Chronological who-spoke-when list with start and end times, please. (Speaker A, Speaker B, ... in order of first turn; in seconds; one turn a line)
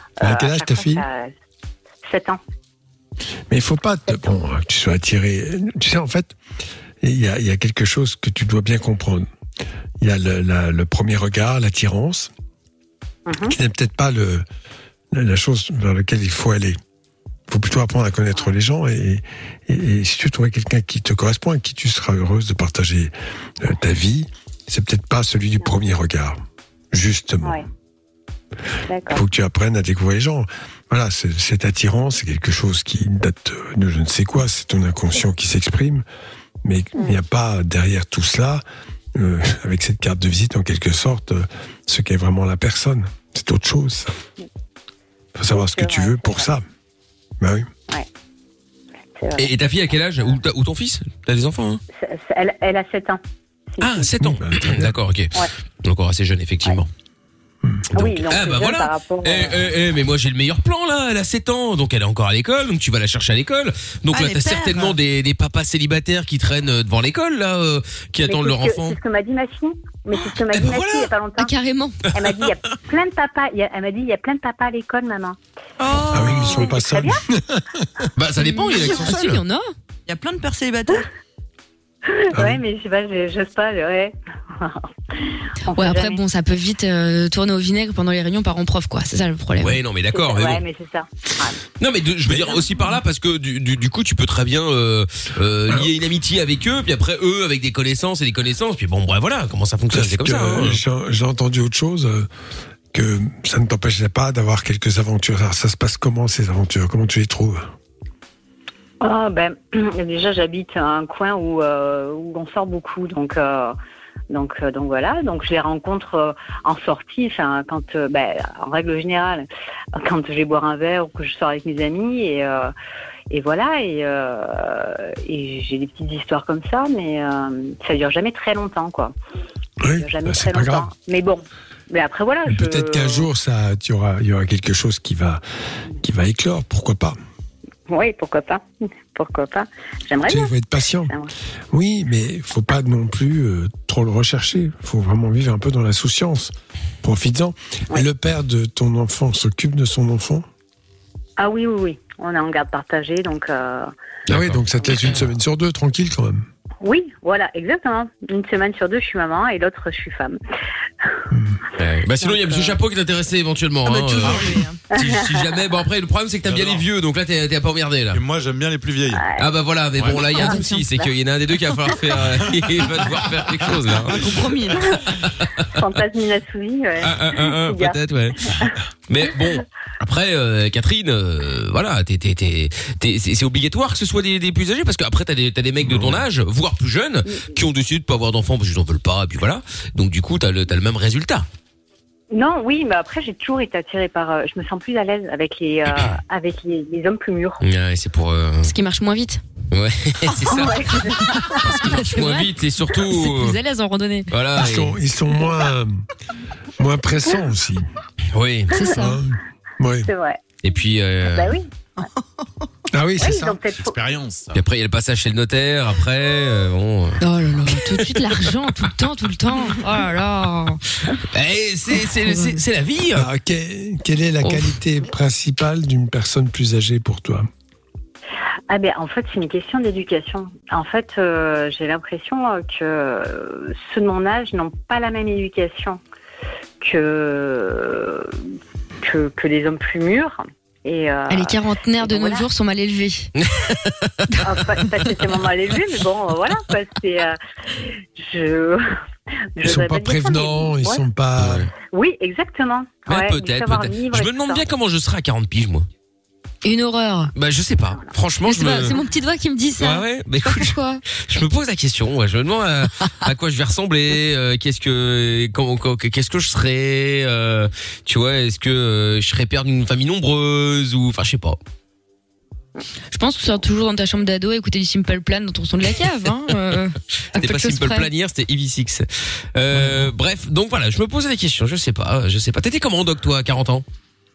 Speaker A: 0.2-1.3
Speaker B: 0.2-1.0
Speaker A: 2.0-2.4
Speaker B: 3.5-6.3
Speaker B: 7.0-9.3
Speaker B: 10.0-12.3
Speaker A: 13.2-13.6
Speaker B: 13.5-14.4
Speaker B: 15.1-16.8
Speaker B: 17.5-26.4
Speaker B: 26.9-27.6
Speaker A: 28.9-29.2
Speaker B: 29.1-36.0
Speaker B: 36.6-38.6
Speaker B: 39.1-44.1
Speaker B: 45.4-46.6
Speaker A: 45.5-46.5
Speaker B: 47.4-47.7
Speaker A: 49.1-49.5
Speaker C: 49.4-51.8
Speaker A: 51.9-53.2
Speaker A: 53.8-54.1
Speaker C: 53.8-56.9
Speaker B: 54.2-54.9
Speaker A: 57.9-59.7
Speaker C: 58.0-69.0
Speaker D: 64.1-65.0
Speaker A: 68.3-71.5
Speaker C: 70.5-71.1
Speaker E: 71.4-72.0
Speaker A: 72.1-75.4
Speaker D: 75.8-76.8
Speaker B: 76.1-77.8
Speaker A: 76.2-77.2
Speaker C: 78.2-79.4
Speaker E: 78.4-79.7
Speaker D: 80.1-81.1
Speaker A: 82.1-86.2
Speaker B: 82.3-82.6
Speaker E: 85.7-89.8
Speaker C: 89.6-90.6
Speaker A: 90.1-91.6
Speaker C: 91.8-100.8
Speaker B: 99.9-102.3
Speaker B: 102.9-107.7
Speaker A: 109.0-113.8
Speaker A: 114.3-122.7
Speaker A: 123.3-129.1
Speaker B: 129.8-130.9
Speaker A: 129.9-133.3
Speaker B: 132.5-135.4
Speaker B: 136.0-137.2
Speaker A: 137.9-140.5
Speaker B: 140.3-141.1
Speaker B: 141.7-146.5
Speaker B: 147.0-150.4
Speaker A: 151.4-153.9
Speaker C: 154.3-155.2
Speaker B: 154.3-156.4
Speaker A: 156.8-160.4
Speaker B: 161.3-161.6
Speaker C: 161.8-168.2
Speaker A: 162.2-162.8
Speaker D: 163.8-164.8
Speaker A: 164.9-165.4
Speaker F: 166.4-166.9
Speaker F: 168.1-169.2
Speaker A: 169.1-169.4
Speaker C: 169.4-174.3
Speaker F: 170.0-170.2
Speaker A: 170.3-171.1
Speaker E: 170.3-170.8
Speaker F: 173.0-173.3
Speaker D: 174.1-175.0
Speaker A: 175.7-178.7
Speaker C: 177.0-178.6
Speaker C: 179.1-191.4
Speaker B: 185.8-186.2
Speaker A: 192.3-197.6
Speaker C: 197.6-198.7
Speaker E: 198.6-199.4
Speaker C: 199.7-203.6
Speaker A: 200.4-201.8
Speaker E: 201.5-204.3
Speaker C: 204.3-205.0
Speaker B: 204.6-206.0
Speaker B: 206.8-207.9
Speaker C: 208.3-208.8
Speaker E: 208.7-209.2
Speaker B: 208.8-210.1
Speaker A: 210.0-210.4
Speaker C: 210.6-211.6
Speaker A: 211.3-211.7
Speaker B: 212.9-213.6
Speaker A: 213.2-214.0
Speaker F: 213.7-214.6
Speaker C: 214.5-218.5
Speaker E: 217.2-220.8
Speaker C: 221.3-223.3
Speaker E: 222.2-222.6
Speaker B: 223.2-227.5
Speaker A: 228.7-236.0
Speaker A: 236.8-238.4
Speaker A: 239.0-242.4
Speaker E: 241.3-243.3
Speaker C: 243.4-244.3
Speaker A: 244.4-248.9
Speaker A: 249.6-251.0
Speaker B: 249.6-251.7
Speaker C: 251.4-251.7
Speaker A: 251.9-254.6
Speaker C: 253.1-255.9
Speaker E: 256.6-257.3
Speaker C: 257.3-259.0
Speaker E: 258.4-261.0
Speaker C: 259.8-271.6
Speaker E: 273.1-278.1
Speaker C: 277.4-283.8